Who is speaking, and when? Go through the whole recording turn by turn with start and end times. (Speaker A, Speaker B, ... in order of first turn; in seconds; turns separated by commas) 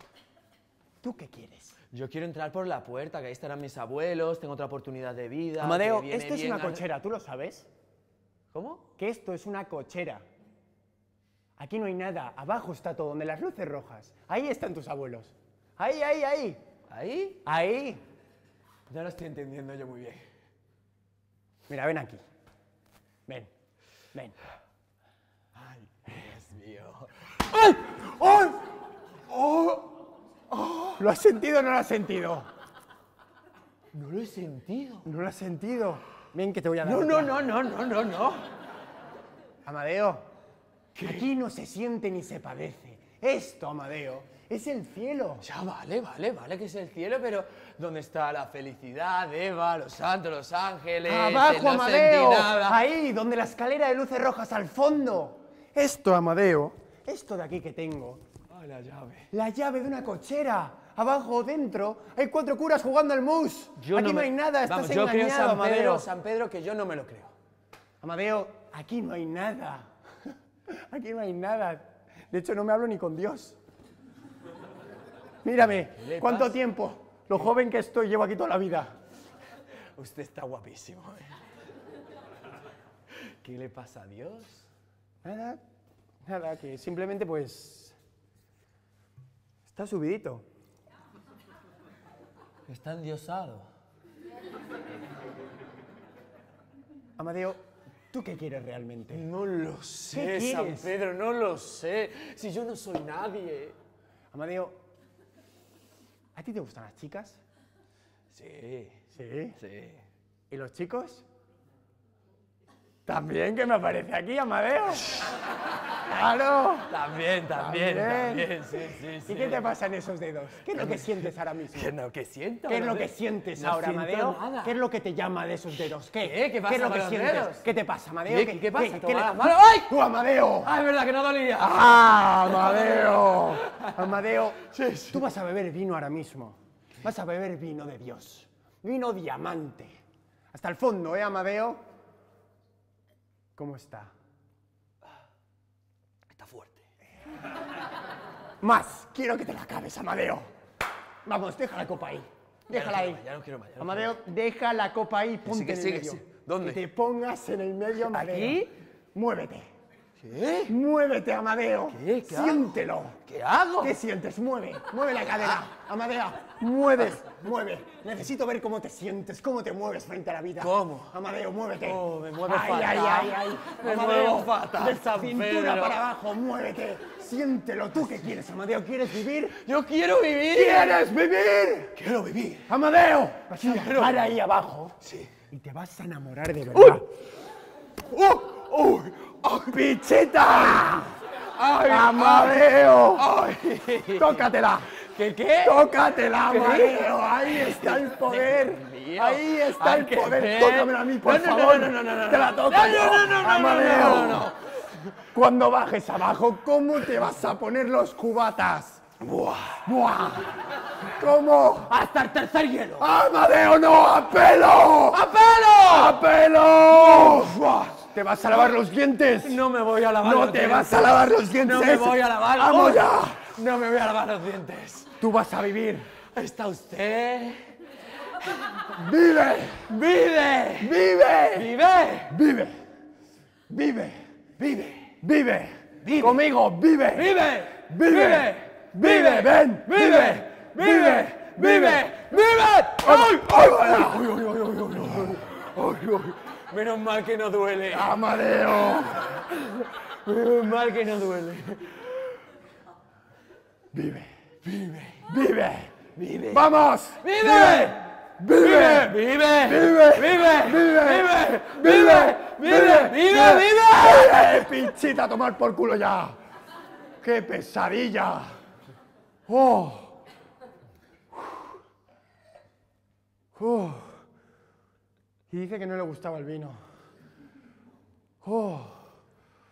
Speaker A: 1.0-1.8, Speaker B: 1.9-6.8, Speaker A: 5.6-7.7, Speaker B: 8.5-8.9, Speaker A: 9.0-10.2, Speaker A: 11.6-16.6, Speaker B: 16.9-17.4, Speaker A: 17.4-18.0, Speaker B: 18.9-20.2, Speaker A: 21.7-22.2, Speaker B: 25.5-28.7, Speaker B: 29.3-30.0, Speaker B: 30.5-31.0, Speaker A: 31.0-32.5, Speaker B: 33.9-35.1, Speaker A: 35.0-37.5, Speaker B: 36.8-38.5, Speaker A: 39.6-40.3, Speaker B: 41.0-41.3, Speaker A: 41.0-45.5, Speaker B: 45.4-52.8, Speaker A: 51.0-58.2, Speaker B: 58.5-59.3, Speaker A: 59.3-66.1, Speaker B: 63.8-67.3, Speaker A: 68.0-69.9, Speaker A: 70.7-73.6, Speaker A: 75.4-79.0, Speaker B: 76.0-76.5, Speaker B: 80.0-81.4, Speaker B: 83.1-84.7, Speaker A: 85.2-85.6, Speaker A: 86.2-88.0, Speaker A: 89.7-90.5, Speaker B: 92.7-93.7, Speaker A: 97.2-99.2, Speaker B: 99.1-103.8, Speaker A: 100.1-100.9, Speaker A: 104.3-104.8, Speaker A: 106.3-107.4, Speaker B: 108.3-109.0, Speaker A: 109.1-109.6, Speaker B: 109.6-110.0, Speaker A: 110.5-111.2, Speaker A: 113.1-115.2, Speaker A: 116.0-117.0, Speaker B: 116.9-119.7, Speaker A: 117.5-121.9, Speaker B: 120.7-124.8, Speaker A: 122.7-130.7, Speaker B: 126.2-127.7, Speaker B: 128.3-129.9, Speaker B: 130.6-134.2, Speaker A: 131.6-140.0, Speaker B: 134.7-135.2, Speaker A: 140.5-141.8, Speaker A: 143.6-144.1, Speaker B: 146.3-146.8, Speaker A: 148.6-150.5, Speaker A: 151.2-153.2, Speaker B: 152.7-154.1, Speaker A: 153.8-158.6, Speaker B: 155.4-156.8, Speaker B: 158.0-158.7, Speaker A: 159.1-159.7, Speaker B: 160.2-160.8, Speaker A: 160.7-163.2, Speaker B: 161.9-164.0, Speaker A: 163.8-179.6, Speaker B: 165.2-165.6, Speaker B: 170.6-171.2, Speaker B: 171.8-176.0, Speaker B: 179.5-181.0, Speaker A: 180.5-182.0, Speaker B: 181.9-182.7, Speaker A: 182.7-185.0, Speaker B: 183.5-184.3, Speaker B: 185.0-185.3, Speaker A: 185.5-187.1, Speaker B: 186.7-187.0, Speaker B: 188.1-189.8, Speaker A: 189.5-191.2, Speaker B: 190.4-205.0, Speaker A: 191.8-193.3, Speaker A: 194.1-194.9, Speaker A: 195.6-204.5, Speaker A: 205.3-209.1, Speaker B: 209.2-209.9, Speaker A: 209.8-211.9, Speaker B: 211.8-213.1, Speaker A: 213.0-215.2, Speaker B: 215.1-216.3, Speaker A: 215.9-217.6, Speaker B: 216.8-218.7, Speaker A: 218.1-219.6, Speaker B: 219.4-225.2, Speaker A: 220.2-223.4, Speaker A: 225.2-226.1, Speaker B: 226.3-229.0, Speaker A: 228.9-229.9, Speaker B: 229.8-231.0, Speaker A: 230.8-231.7, Speaker B: 231.5-232.4, Speaker A: 232.3-232.8, Speaker A: 233.7-234.2, Speaker B: 234.6-235.2, Speaker A: 235.2-242.1, Speaker B: 236.0-236.4, Speaker B: 237.1-248.2, Speaker A: 243.0-244.2, Speaker A: 245.0-245.4, Speaker A: 247.9-249.4, Speaker B: 249.1-252.4, Speaker A: 253.9-254.3, Speaker B: 254.6-255.3, Speaker A: 255.3-266.4, Speaker B: 256.2-264.8, Speaker A: 267.2-268.6, Speaker A: 269.5-270.1, Speaker A: 273.6-274.2, Speaker A: 275.5-276.8, Speaker A: 278.4-279.1